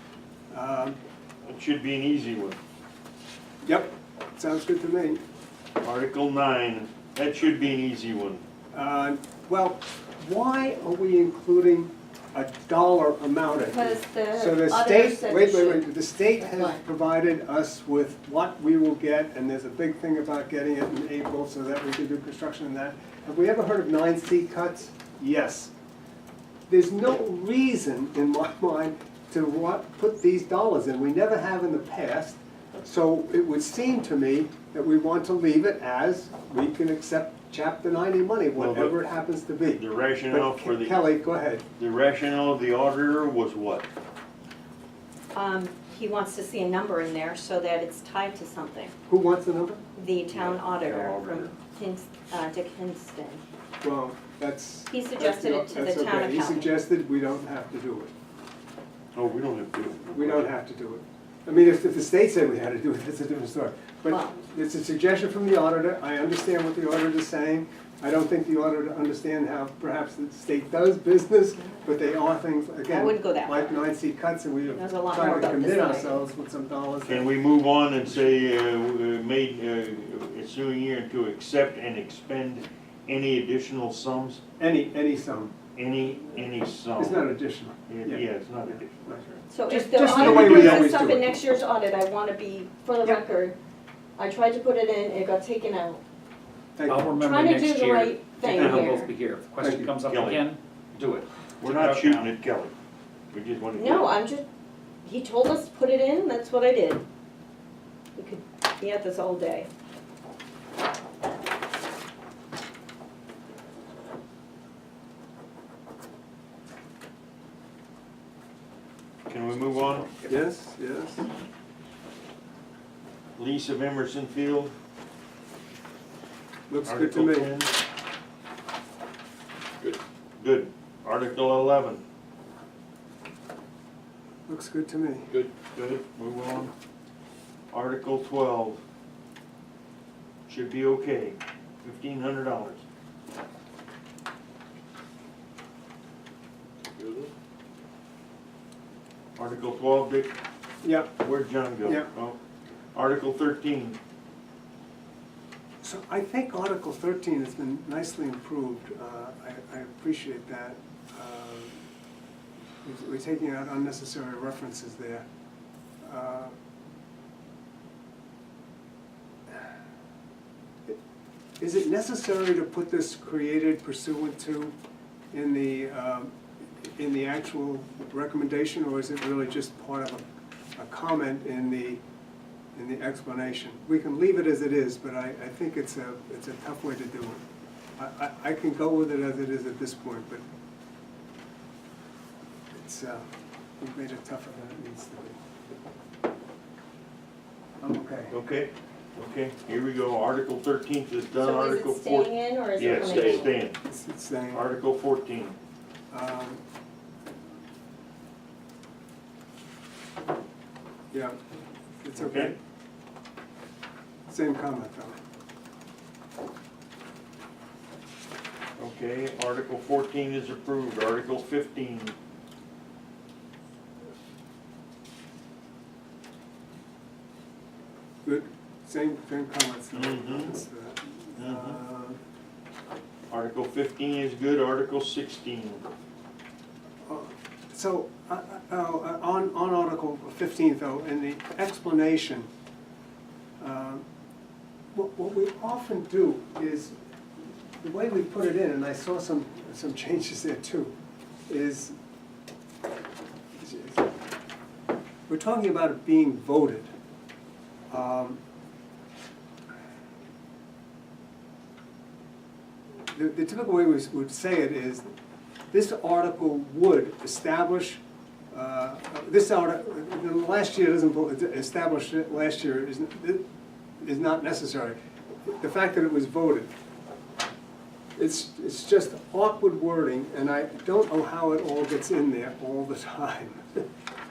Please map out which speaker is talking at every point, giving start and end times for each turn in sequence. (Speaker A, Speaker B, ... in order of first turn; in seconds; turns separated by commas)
Speaker A: 0.5-1.0, Speaker B: 1.4-2.6, Speaker A: 3.6-5.2, Speaker B: 5.8-8.4, Speaker A: 8.7-25.7, Speaker C: 13.6-16.8, Speaker A: 26.7-41.6, Speaker B: 38.5-39.0, Speaker B: 39.6-41.0, Speaker B: 41.8-43.9, Speaker C: 45.3-48.9, Speaker A: 49.1-49.8, Speaker C: 50.0-53.4, Speaker B: 50.3-51.5, Speaker A: 53.8-58.1, Speaker C: 54.9-56.7, Speaker B: 59.1-60.5, Speaker A: 60.1-77.3, Speaker C: 64.1-64.3, Speaker C: 72.9-73.8, Speaker C: 74.7-76.2, Speaker B: 77.0-84.4, Speaker A: 84.6-85.5, Speaker B: 85.7-87.2, Speaker A: 87.0-88.2, Speaker B: 87.9-89.5, Speaker A: 89.1-91.2, Speaker C: 89.5-93.5, Speaker B: 90.0-91.0, Speaker C: 94.2-96.0, Speaker A: 96.8-97.0, Speaker D: 96.9-102.2, Speaker C: 97.2-99.1, Speaker A: 99.6-99.9, Speaker B: 100.1-100.4, Speaker B: 101.6-102.7, Speaker B: 103.3-104.2, Speaker C: 103.7-104.5, Speaker C: 105.0-107.0, Speaker C: 108.2-109.7, Speaker B: 119.3-120.1, Speaker A: 120.3-121.2, Speaker B: 123.3-124.7, Speaker A: 126.7-127.5, Speaker B: 126.8-127.7, Speaker B: 129.8-132.0, Speaker A: 134.5-135.3, Speaker B: 135.3-136.7, Speaker B: 137.7-138.8, Speaker B: 140.5-142.8, Speaker B: 146.9-147.3, Speaker B: 149.3-150.3, Speaker A: 150.8-151.1, Speaker B: 151.1-152.4, Speaker A: 151.8-152.1, Speaker B: 152.9-154.0, Speaker A: 155.8-161.8, Speaker A: 162.8-165.2, Speaker A: 166.0-166.5, Speaker A: 171.6-174.7, Speaker A: 175.3-182.0, Speaker A: 182.8-187.4, Speaker A: 188.0-190.4, Speaker A: 192.7-193.2, Speaker A: 193.8-195.4, Speaker A: 197.8-198.3, Speaker B: 198.3-203.8, Speaker C: 201.3-203.5, Speaker A: 203.8-204.7, Speaker B: 204.5-205.6, Speaker A: 206.1-206.6, Speaker A: 211.1-211.4, Speaker A: 212.0-212.6, Speaker B: 212.2-212.5, Speaker A: 214.3-215.2, Speaker B: 218.8-222.1, Speaker A: 228.2-232.2, Speaker B: 229.9-230.5, Speaker B: 231.4-231.8, Speaker B: 233.3-235.8, Speaker A: 237.0-242.5, Speaker A: 243.6-244.0, Speaker A: 244.9-246.9, Speaker A: 247.8-250.9, Speaker A: 251.5-251.9, Speaker A: 253.6-254.1, Speaker A: 255.3-256.9, Speaker A: 257.9-258.4, Speaker A: 263.1-265.1, Speaker A: 265.7-268.0, Speaker A: 268.5-273.4, Speaker A: 274.0-275.0, Speaker A: 275.5-276.7, Speaker A: 278.2-283.8